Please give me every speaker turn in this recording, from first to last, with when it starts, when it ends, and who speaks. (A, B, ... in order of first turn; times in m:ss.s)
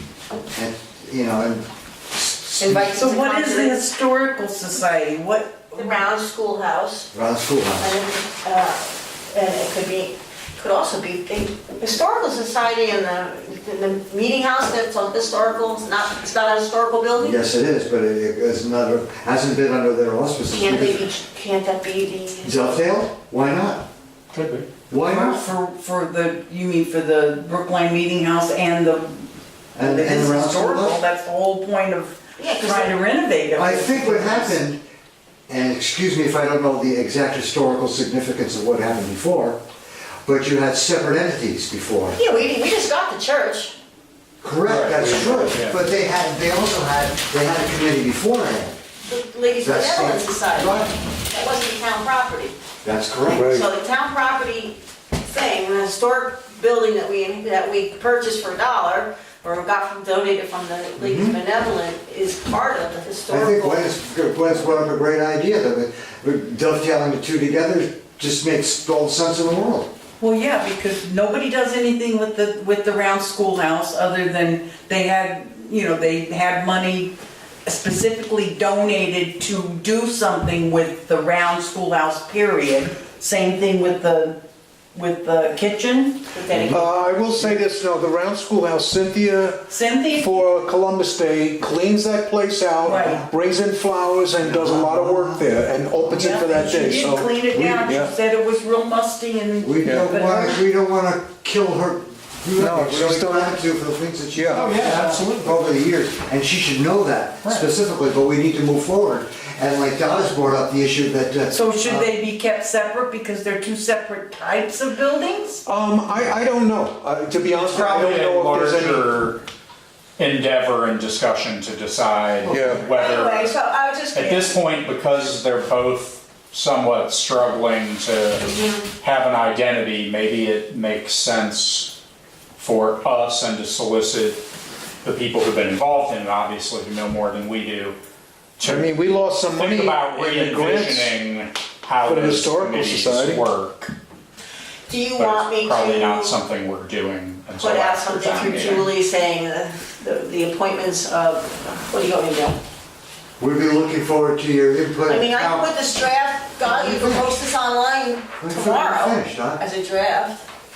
0:00.5-0:03.0 A
0:02.6-0:03.8 B
0:03.0-0:06.1 C
0:05.8-0:07.1 B
0:07.1-0:08.0 A
0:07.8-0:17.4 B
0:17.2-0:21.1 A
0:20.5-0:22.8 B
0:22.4-0:23.9 A
0:24.3-0:24.7 D
0:24.9-0:25.5 A
0:25.0-0:34.6 C
0:29.8-0:31.0 A
0:32.4-0:33.0 B
0:33.5-0:34.8 A
0:35.5-0:39.6 A
0:40.2-0:42.2 A
0:42.1-0:43.7 B
0:44.4-0:48.8 A
0:44.6-0:45.8 D
0:49.0-0:52.6 B
0:49.6-0:50.9 A
0:52.8-0:53.6 A
0:53.2-1:03.9 B
0:53.4-0:53.6 E
1:01.0-1:01.4 A
1:03.3-1:09.9 A
1:10.2-1:17.1 C
1:17.6-1:24.4 C
1:24.9-1:26.3 C
1:26.3-1:27.0 B
1:26.5-1:26.9 A
1:26.7-1:38.1 E
1:29.7-1:30.4 C
1:32.8-1:33.2 C
1:32.8-1:33.3 A
1:34.4-1:35.5 A
1:36.2-1:40.6 C
1:39.6-1:52.1 A
1:39.8-1:40.2 E
1:42.6-1:43.6 E
1:44.3-1:44.7 E
1:44.5-1:45.6 D
1:47.4-1:47.7 D
1:51.5-1:55.6 C
1:55.7-1:59.1 E
1:57.6-1:59.4 D
2:00.2-2:03.6 D
2:02.5-2:02.8 E
2:02.9-2:04.6 B
2:04.1-2:08.5 D
2:08.4-2:08.9 B
2:09.0-2:12.0 D
2:12.6-2:14.4 D
2:15.0-2:18.0 D
2:18.6-2:18.9 D
2:18.6-2:21.2 E
2:19.5-2:23.9 D
2:22.0-2:23.5 E
2:24.9-2:26.4 B
2:25.1-2:28.9 D
2:27.6-2:32.6 B
2:33.4-2:35.7 A
2:35.1-2:40.4 B
2:36.6-2:37.3 A
2:38.4-2:39.6 A